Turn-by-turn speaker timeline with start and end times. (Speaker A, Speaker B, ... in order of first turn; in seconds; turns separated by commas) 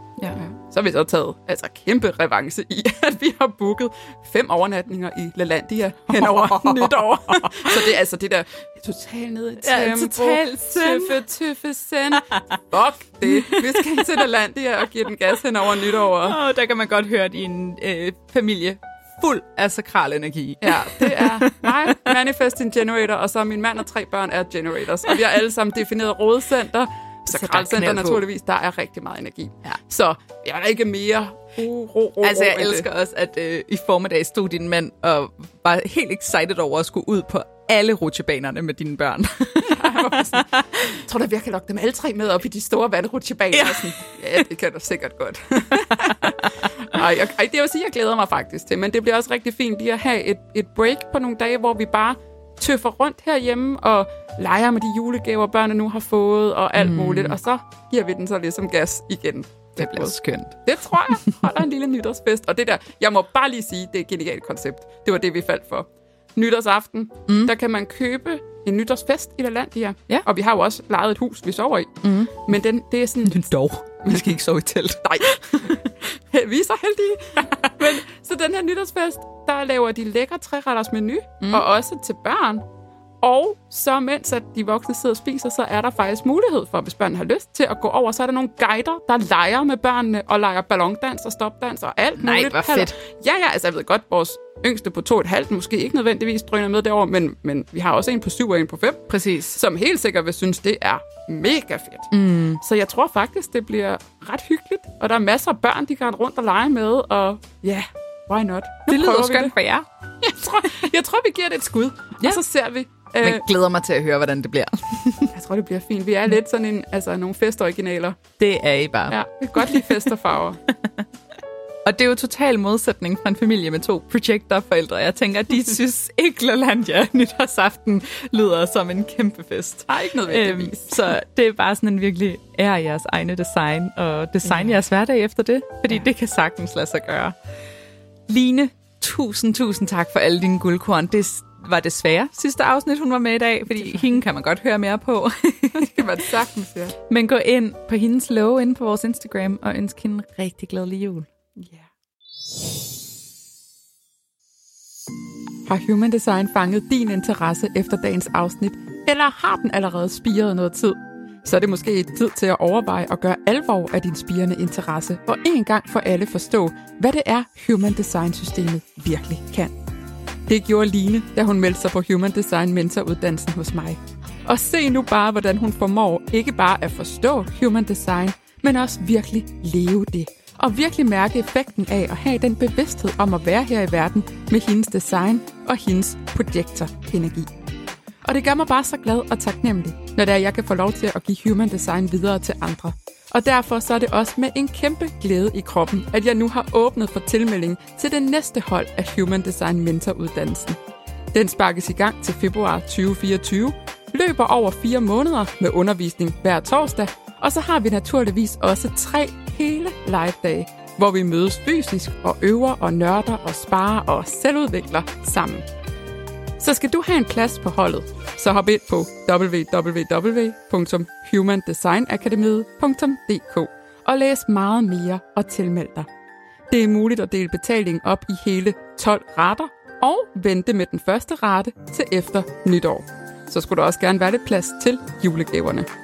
Speaker A: 0.3-16.4, Speaker B: 6.1-7.8, Speaker B: 9.6-11.2, Speaker B: 13.3-14.2, Speaker B: 16.2-22.1, Speaker A: 20.6-32.9, Speaker B: 27.3-28.2, Speaker B: 32.2-41.0, Speaker A: 39.7-60.1, Speaker B: 43.5-44.4, Speaker B: 45.8-46.5, Speaker B: 56.8-57.4, Speaker B: 59.8-60.6, Speaker A: 60.6-73.5, Speaker B: 67.3-67.5, Speaker B: 72.0-72.5, Speaker B: 73.2-75.7, Speaker A: 74.0-74.4, Speaker A: 75.0-82.7, Speaker B: 81.4-81.7, Speaker A: 83.2-109.5, Speaker B: 92.2-92.9, Speaker B: 99.1-99.6, Speaker B: 102.1-102.6, Speaker B: 108.9-109.9, Speaker A: 110.2-113.4, Speaker B: 113.2-115.3, Speaker A: 115.3-118.2, Speaker B: 118.4-120.1, Speaker A: 119.1-120.6, Speaker B: 121.8-137.4, Speaker A: 129.9-130.9, Speaker A: 134.4-134.8, Speaker B: 138.3-146.1, Speaker A: 145.8-146.9, Speaker B: 147.1-151.3, Speaker A: 151.6-151.9, Speaker A: 155.7-169.8, Speaker A: 170.5-187.5, Speaker A: 188.2-200.8, Speaker A: 201.3-215.7, Speaker A: 216.6-226.1, Speaker A: 226.7-235.9